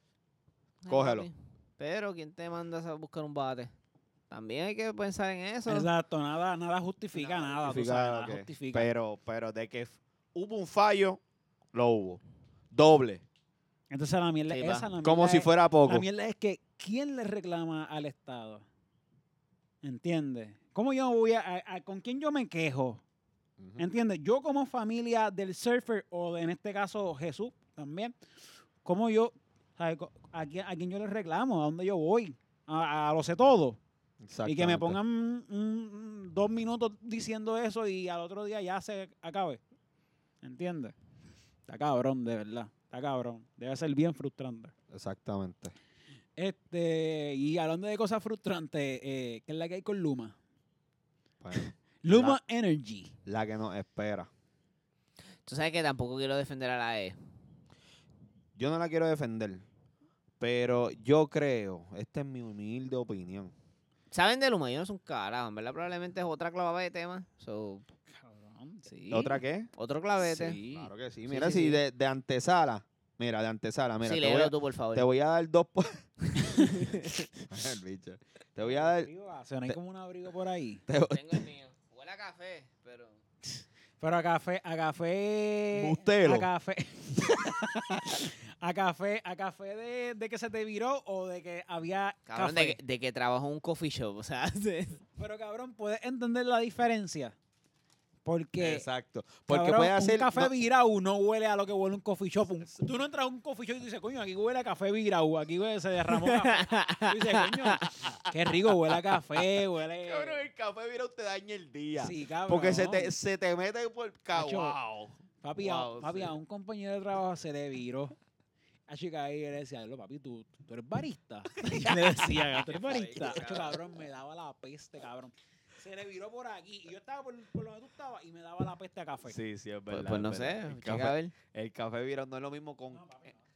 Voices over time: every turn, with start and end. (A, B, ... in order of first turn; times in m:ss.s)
0:00.8-0:03.7 A
0:00.9-0:01.3 B
0:04.3-0:05.9 A
0:05.7-0:08.9 C
0:07.4-0:11.2 B
0:11.7-0:13.2 B
0:13.9-0:18.6 C
0:14.5-0:14.9 A
0:15.0-0:16.1 B
0:19.8-0:23.0 C
0:23.6-0:23.9 B
0:23.8-0:28.2 C
0:28.8-0:33.8 C
0:34.2-0:35.0 B
0:34.4-0:39.6 C
0:40.4-0:41.0 C
0:41.7-0:44.7 C
0:44.9-0:45.8 B
0:46.4-0:50.4 C
0:51.4-0:52.4 B
0:51.6-0:53.1 C
0:53.3-0:54.3 B
0:55.4-0:57.2 A
0:58.6-0:59.6 B
1:00.4-1:03.5 B
1:04.1-1:07.8 A
1:08.1-1:09.2 C
1:09.0-1:10.6 A
1:09.1-1:09.7 B
1:10.2-1:10.9 C
1:10.6-1:16.0 B
1:11.3-1:11.8 A
1:14.0-1:15.1 A
1:16.5-1:17.2 A
1:17.5-1:19.1 B
1:18.6-1:20.8 C
1:20.9-1:21.4 B
1:21.1-1:23.2 A
1:24.0-1:32.8 C
1:25.7-1:26.5 B
1:27.2-1:27.8 B
1:32.3-1:35.0 A
1:35.2-1:37.4 C
1:38.2-1:38.9 C
1:38.6-1:40.5 B
1:39.5-1:50.4 C
1:46.1-1:48.1 A
1:50.0-1:56.3 B
1:52.0-1:53.1 C
1:54.3-1:54.8 C
1:55.4-1:58.1 C
1:58.9-2:09.4 C
2:01.7-2:03.8 B
2:09.3-2:13.2 B
2:09.9-2:11.3 A